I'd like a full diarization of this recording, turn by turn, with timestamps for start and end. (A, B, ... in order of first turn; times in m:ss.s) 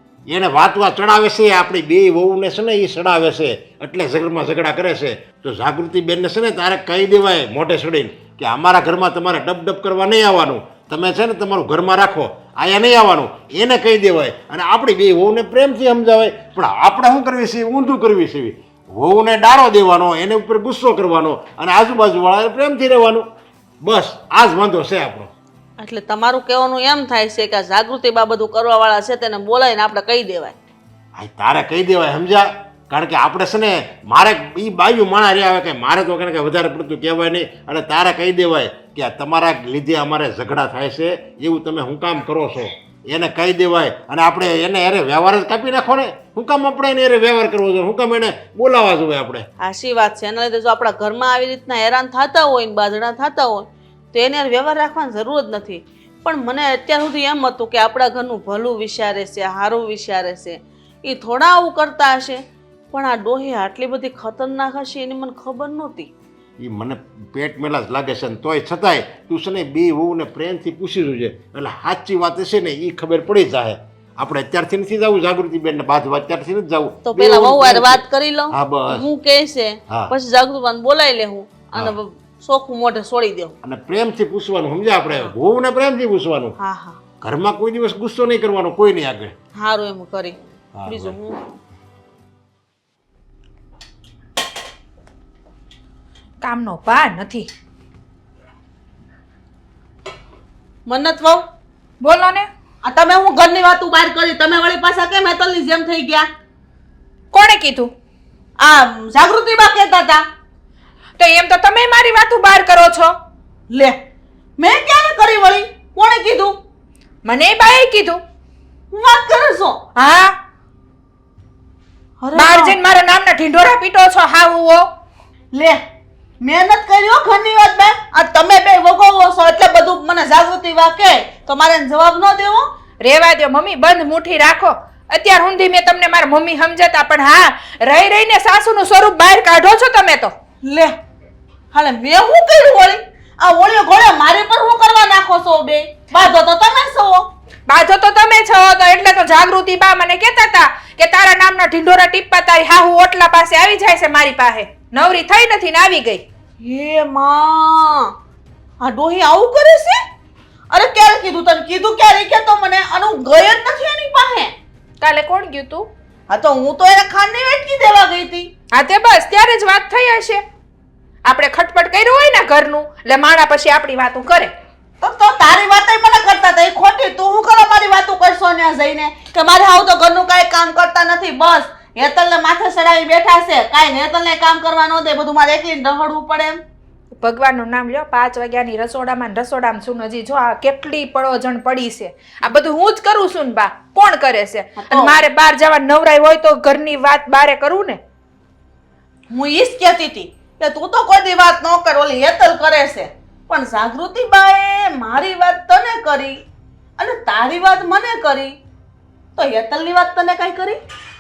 0:00.3-0:23.2 A
0:23.8-0:25.3 A
0:25.8-0:30.5 B
0:31.2-0:49.5 A
0:49.6-1:02.4 B
1:02.9-1:06.1 B
1:06.6-1:19.0 A
1:17.0-1:23.6 B
1:23.6-1:26.6 A
1:26.6-1:27.0 B
1:27.2-1:29.4 A
1:29.6-1:30.4 B
1:30.8-1:31.2 A
1:30.9-1:31.4 B
1:36.4-1:37.5 C
1:40.9-1:41.4 B
1:42.0-1:42.5 C
1:42.8-1:46.2 B
1:47.3-1:47.9 C
1:48.6-1:50.2 B
1:51.2-1:53.2 C
1:54.6-1:56.6 B
1:57.2-1:58.2 C
1:58.9-1:59.8 B
2:00.0-2:00.3 C
2:02.2-2:02.8 B
2:02.4-2:04.8 C
2:06.4-2:12.6 B
2:13.0-2:20.3 C
2:20.6-2:20.9 B
2:21.7-2:27.2 B
2:27.7-2:36.2 C
2:36.6-2:38.1 B
2:38.8-2:40.0 B
2:40.7-2:44.5 B
2:45.0-2:45.9 C
2:46.3-2:48.5 B
2:48.7-2:50.4 C
2:51.3-2:54.5 C
2:55.0-3:06.6 B
3:07.2-3:18.0 C
3:14.8-3:15.2 B
3:19.3-3:26.4 B
3:27.0-3:28.5 B
3:29.4-3:30.8 B